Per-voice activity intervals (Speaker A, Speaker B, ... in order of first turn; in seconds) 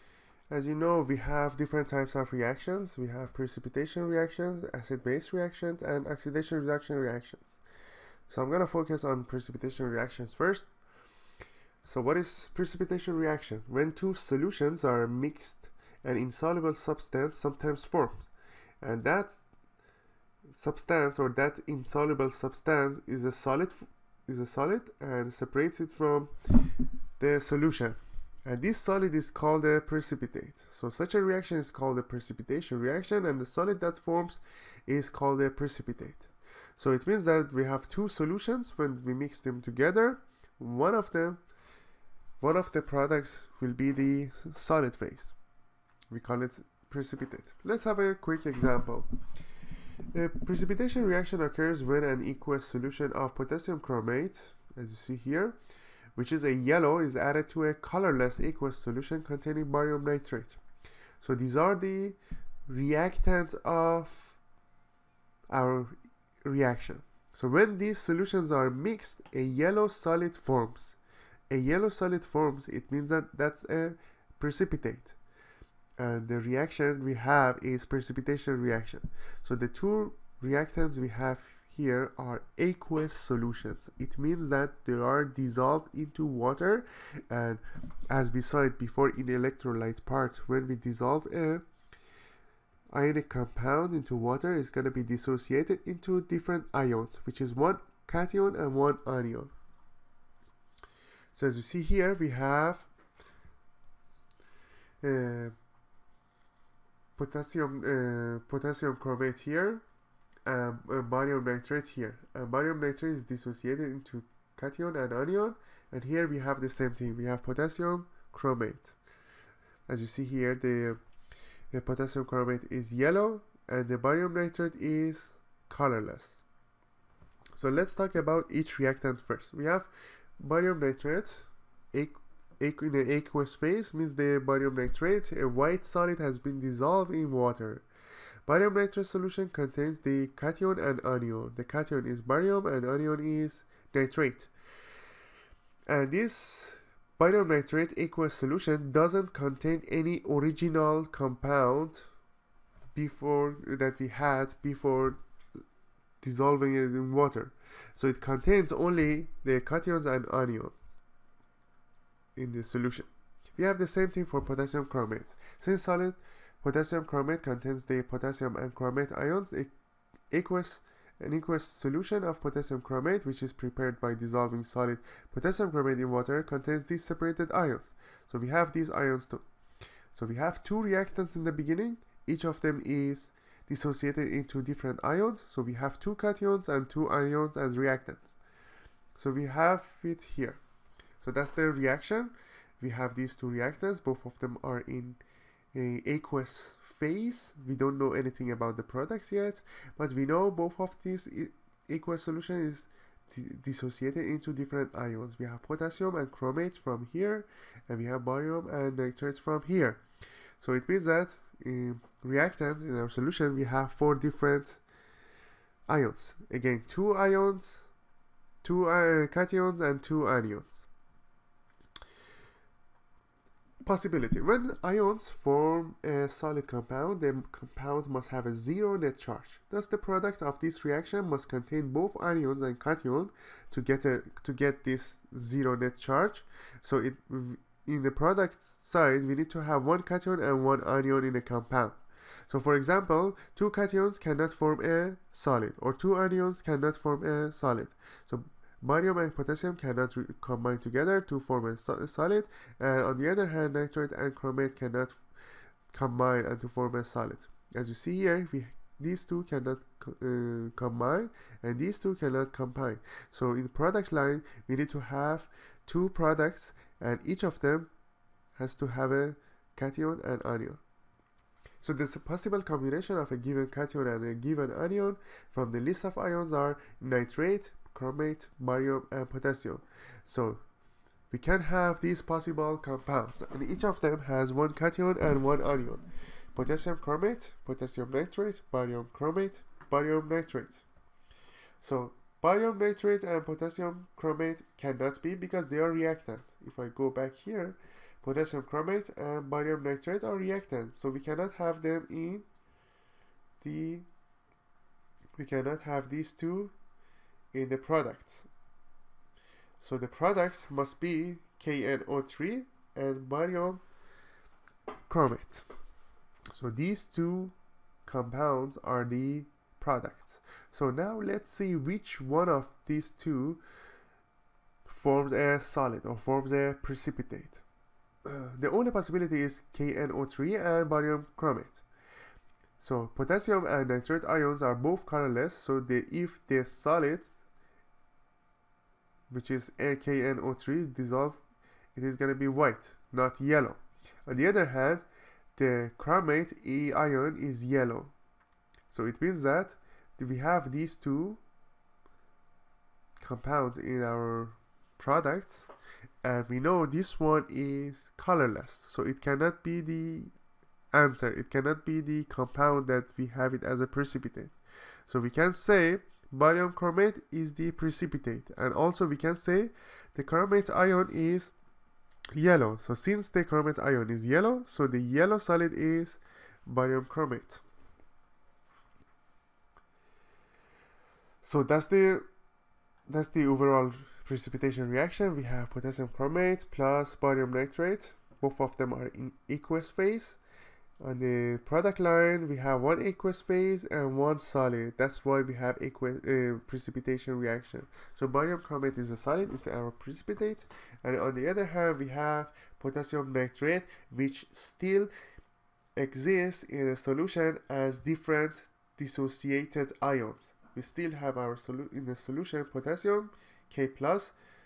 Speaker A: 0.5-7.6, 8.3-10.7, 11.8-19.4, 20.5-26.3, 27.2-41.4, 42.4-45.3, 46.1-49.1, 50.1-55.6, 56.2-60.6, 61.2-64.4, 65.5-71.0, 71.5-75.2, 76.0-91.6, 92.9-99.5, 101.3-102.9, 105.0-105.5, 107.2-109.8, 110.5-119.0, 119.9-121.0, 121.7-126.4, 127.6-137.8, 138.5-144.5, 145.9-152.1, 152.9-155.2, 156.2-160.8, 162.3-169.7, 170.3-179.4, 180.1-188.4, 189.2-190.6, 191.2-195.2, 195.7-210.0, 210.6-214.8, 215.9-217.9, 218.6-220.9, 223.8-255.2, 255.9-267.9, 268.6-270.8, 271.8-280.6, 281.3-290.9, 291.8-302.4, 303.6-304.1, 305.4-306.7, 307.5-308.5, 309.8-313.8, 315.1-315.7, 316.5-317.6, 318.1-323.6, 324.9-327.6, 328.2-331.8, 332.8-337.4, 339.3-341.4, 341.9-348.1, 348.9-351.4, 353.2-355.7, 356.2-360.3, 360.9-364.5, 365.1-371.5, 372.4-377.6, 381.4-382.2, 383.1-390.4, 391.0-405.1, 405.9-414.4